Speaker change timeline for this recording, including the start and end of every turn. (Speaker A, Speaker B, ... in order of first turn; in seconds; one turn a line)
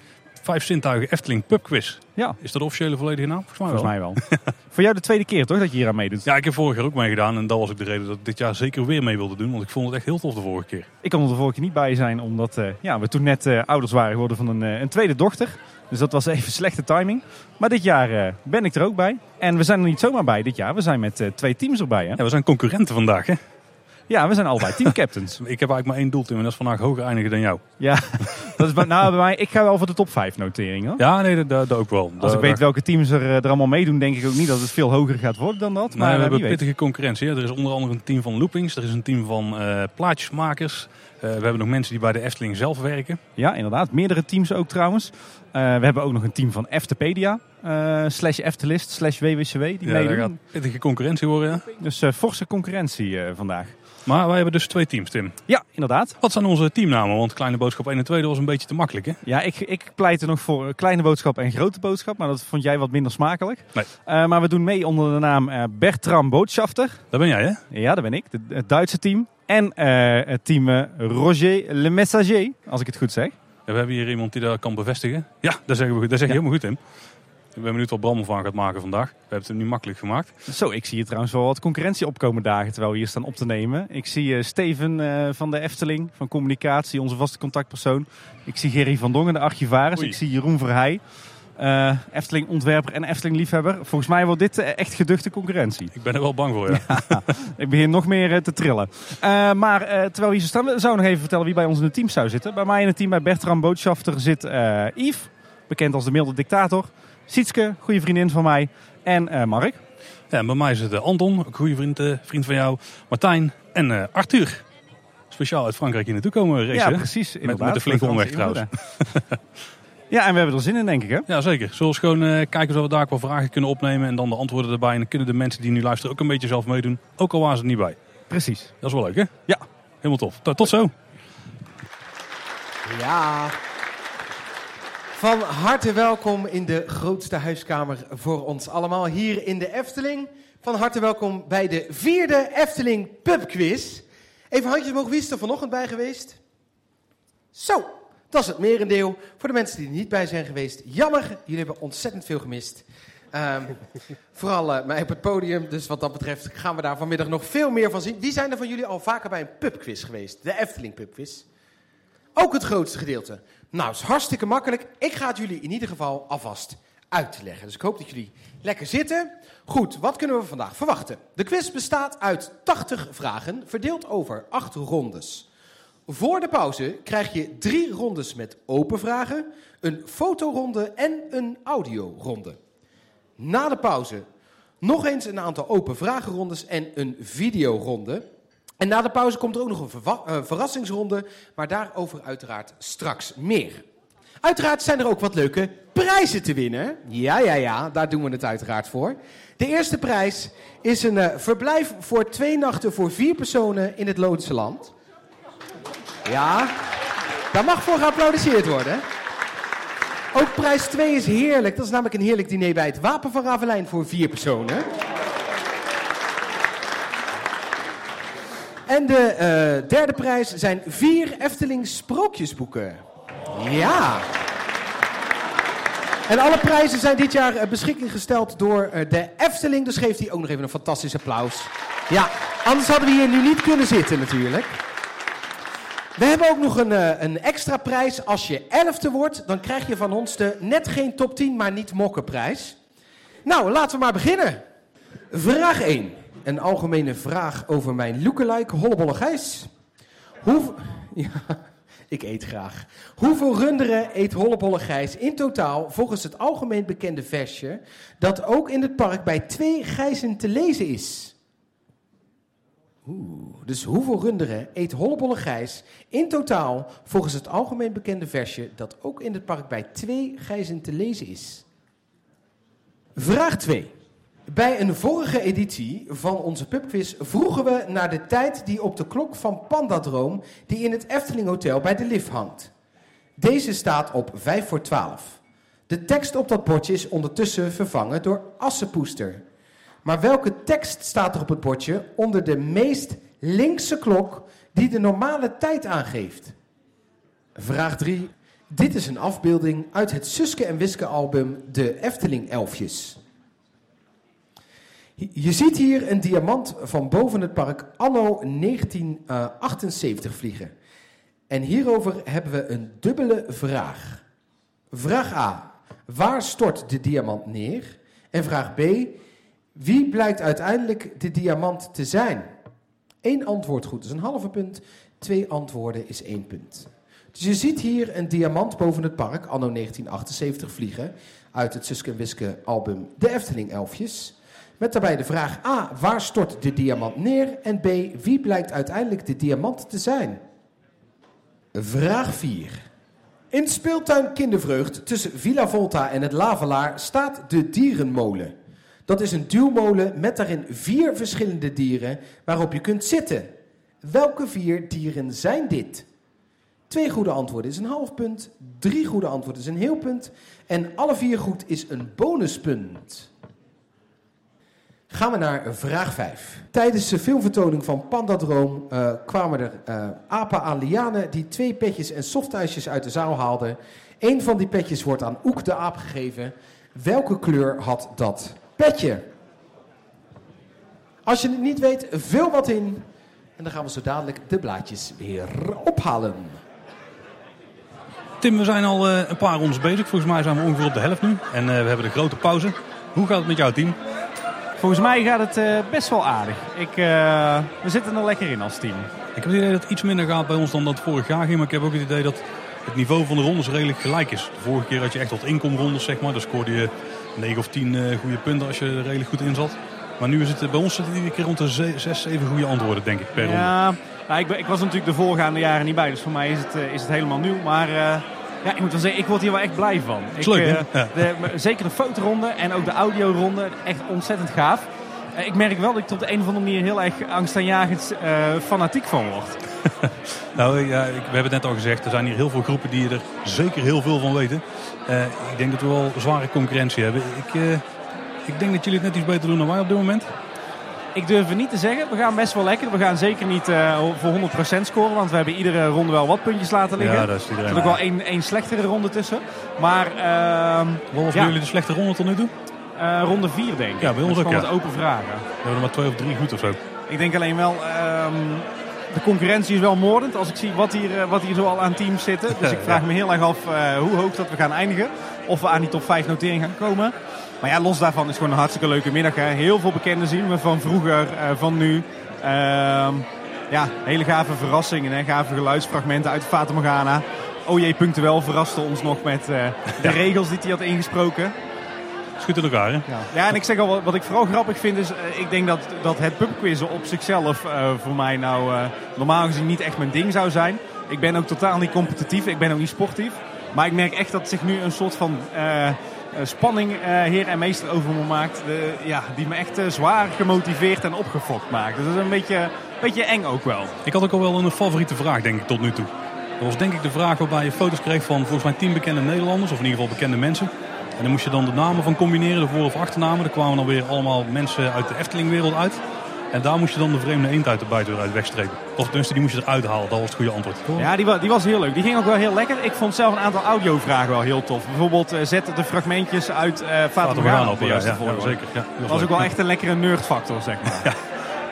Speaker A: 0.4-4.5
Speaker B: 3.6-6.3
Speaker A: 6.2-10.9
Speaker B: 11.0-22.2
Speaker A: 22.2-23.4
Speaker B: 24.1-25.4
Speaker A: 24.8-27.6
Speaker B: 27.8-31.0
Speaker A: 28.2-28.9
Speaker A: 31.0-32.6
Speaker B: 32.2-36.6
Speaker A: 35.9-43.2
Speaker B: 43.4-50.4
Speaker A: 49.8-51.7
Speaker B: 51.8-53.8
Speaker A: 54.0-55.4
Speaker B: 55.5-56.2
Speaker A: 56.2-59.2
Speaker B: 59.2-67.0
Speaker A: 67.1-67.6
Speaker B: 67.7-73.3
Speaker A: 73.7-76.8
Speaker A: 77.5-80.3
Speaker B: 80.5-91.0
Speaker B: 91.6-95.9
Speaker A: 95.9-97.3
Speaker B: 96.7-109.8
Speaker A: 110.3-114.6
Speaker A: 115.3-119.4
Speaker B: 116.7-118.7
Speaker B: 120.1-121.3
Speaker A: 121.3-128.0
Speaker B: 128.3-128.7
Speaker A: 128.8-129.3
Speaker A: 130.0-130.9
Speaker C: 132.8-133.6
Speaker C: 135.1-146.4
Speaker C: 147.5-153.8
Speaker C: 154.3-161.4
Speaker C: 162.3-175.5
Speaker C: 176.1-182.6
Speaker C: 183.4-184.2
Speaker C: 184.8-188.2
Speaker C: 188.8-193.8
Speaker C: 194.4-204.9
Speaker C: 206.2-206.9
Speaker C: 207.5-209.0
Speaker C: 210.3-214.9
Speaker C: 218.9-224.3
Speaker C: 226.3-234.8
Speaker C: 236.2-242.8
Speaker C: 243.4-244.6
Speaker C: 245.3-249.7
Speaker C: 250.4-261.3
Speaker C: 263.1-271.6
Speaker C: 273.1-273.9
Speaker C: 274.5-282.7
Speaker C: 283.4-289.4
Speaker C: 290.0-296.5
Speaker C: 297.6-303.2
Speaker C: 305.2-310.7
Speaker C: 311.5-314.2
Speaker C: 314.9-319.2
Speaker C: 319.8-322.5
Speaker C: 323.2-340.4
Speaker C: 341.7-342.8
Speaker C: 343.5-348.5
Speaker C: 349.1-353.5
Speaker C: 354.0-356.0
Speaker C: 356.9-363.3
Speaker C: 365.1-379.3
Speaker C: 381.2-383.1
Speaker C: 383.6-386.6
Speaker A: 388.4-394.0
Speaker B: 394.8-399.1
Speaker A: 399.3-413.7
Speaker B: 413.3-429.6
Speaker A: 420.4-421.5
Speaker A: 429.9-437.8
Speaker A: 438.4-440.3
Speaker B: 441.1-451.5
Speaker A: 447.0-448.0
Speaker A: 451.1-452.5
Speaker B: 453.0-455.4
Speaker A: 454.0-454.7
Speaker A: 455.6-456.8
Speaker B: 457.1-481.5
Speaker A: 462.5-463.0
Speaker A: 482.4-483.2
Speaker B: 483.1-504.0
Speaker A: 504.0-521.1
Speaker B: 521.0-531.1
Speaker A: 527.2-529.5